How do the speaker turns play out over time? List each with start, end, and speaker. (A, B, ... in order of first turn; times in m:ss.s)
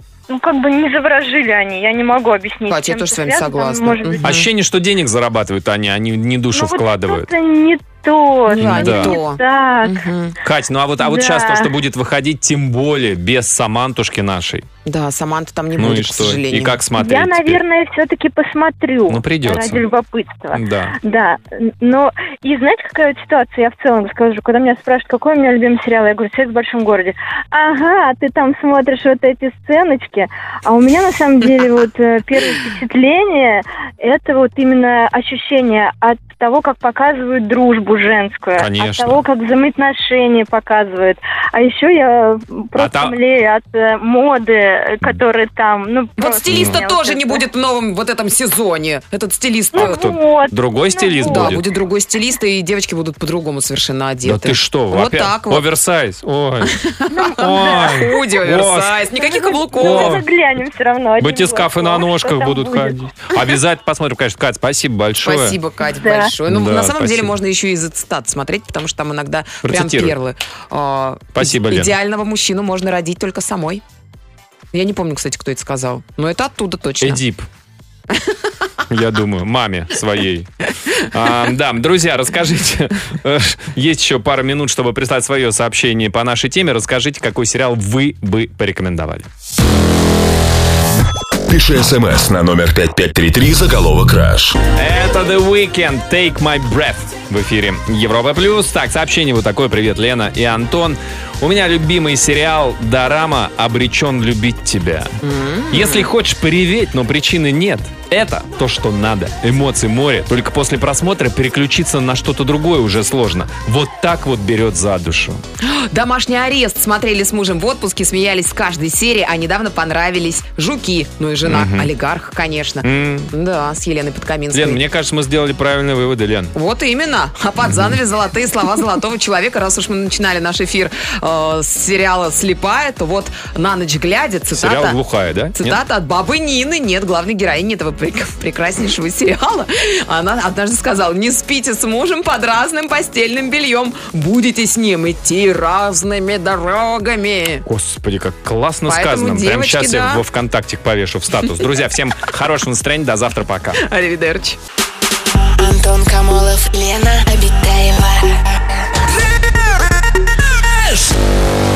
0:00.3-0:04.4 A
0:02.7-0:04.5 B
0:04.2-0:07.3 C
0:06.5-0:10.0 A
0:08.5-0:10.4 B
0:08.6-0:09.2 C
0:10.4-0:14.6 C
0:11.0-0:11.7 A
0:14.8-0:16.8 B
0:15.8-0:17.6 C
0:17.0-0:47.4 A
0:19.1-0:19.8 C
0:20.5-0:21.0 C
0:38.6-0:39.2 C
0:42.8-0:43.2 C
0:46.2-0:50.0 B
0:46.5-0:46.8 C
0:49.7-0:51.6 A
0:49.8-0:51.6 C
0:51.3-0:55.6 B
0:54.2-0:56.7 C
0:56.6-1:00.2 B
0:57.1-0:58.1 A
0:57.4-0:59.0 C
0:59.2-1:03.6 A
0:59.8-1:00.2 C
1:01.2-1:05.6 C
1:05.2-1:13.8 B
1:06.0-1:06.3 A
1:06.5-1:07.3 C
1:09.6-1:10.2 C
1:11.3-1:11.9 C
1:14.7-1:17.2 B
1:17.0-1:17.5 C
1:18.9-1:29.3 C
1:31.5-1:34.6 D
1:34.7-1:45.1 C
1:45.2-1:46.1 B
1:45.7-1:55.4 C
1:55.6-2:04.8 B
2:01.4-2:01.9 C
2:02.8-2:03.3 C
2:04.5-2:06.5 C
2:06.5-2:15.0 B
2:14.5-2:15.8 C
2:15.5-2:27.6 B
2:27.6-2:33.8 C
2:28.8-2:30.2 B
2:33.8-2:34.6 B
2:35.6-2:38.3 E